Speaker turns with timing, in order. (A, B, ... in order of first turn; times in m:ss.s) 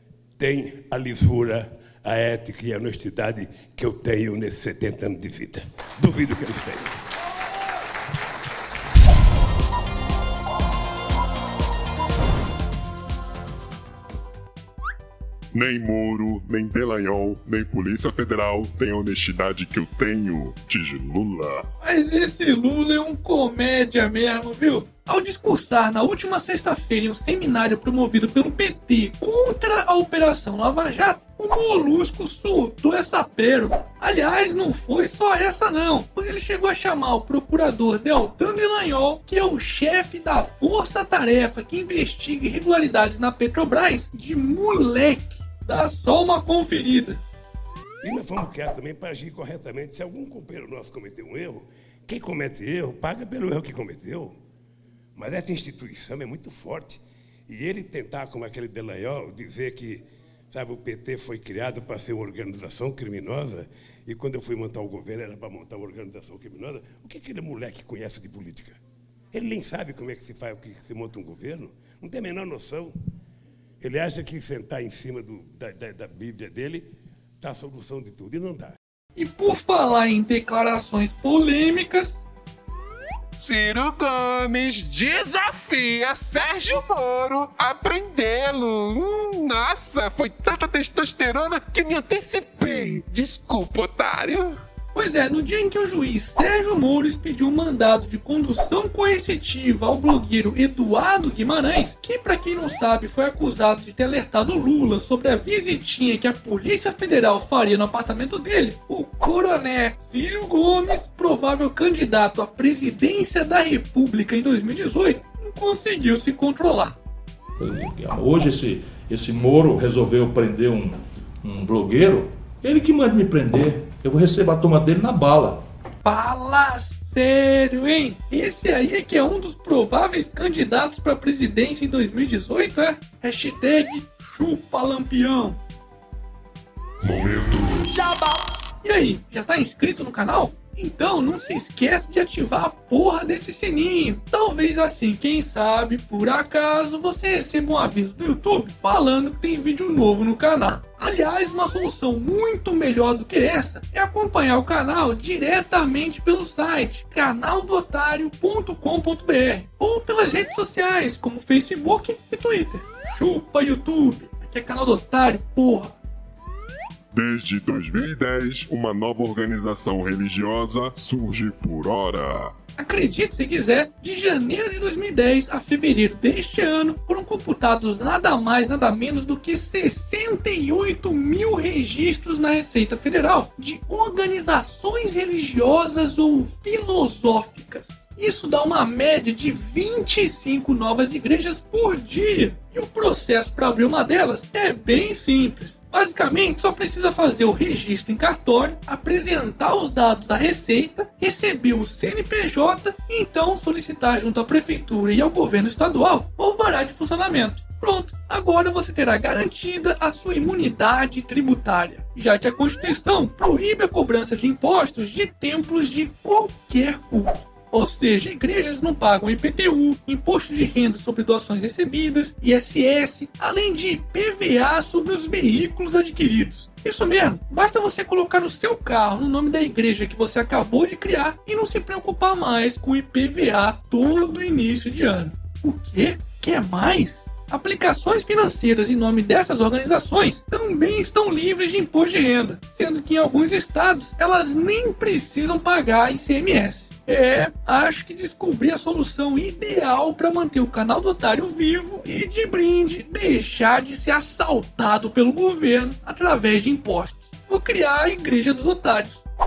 0:00.4-0:07.0 A
0:15.5-0:21.6 B
0:21.8-0:47.2 C
0:48.0-0:54.4 A
0:55.2-1:08.8 A
1:09.3-1:12.9 A
1:13.8-1:16.9 A
1:17.4-1:18.7 A
1:19.2-1:22.2 C
1:23.4-1:34.6 D
1:34.9-1:57.0 C
1:57.6-2:05.6 E
2:06.0-2:15.6 C
2:17.0-2:17.8 B
2:17.9-2:45.9 C
2:47.1-2:52.5 B
2:52.8-4:19.2 C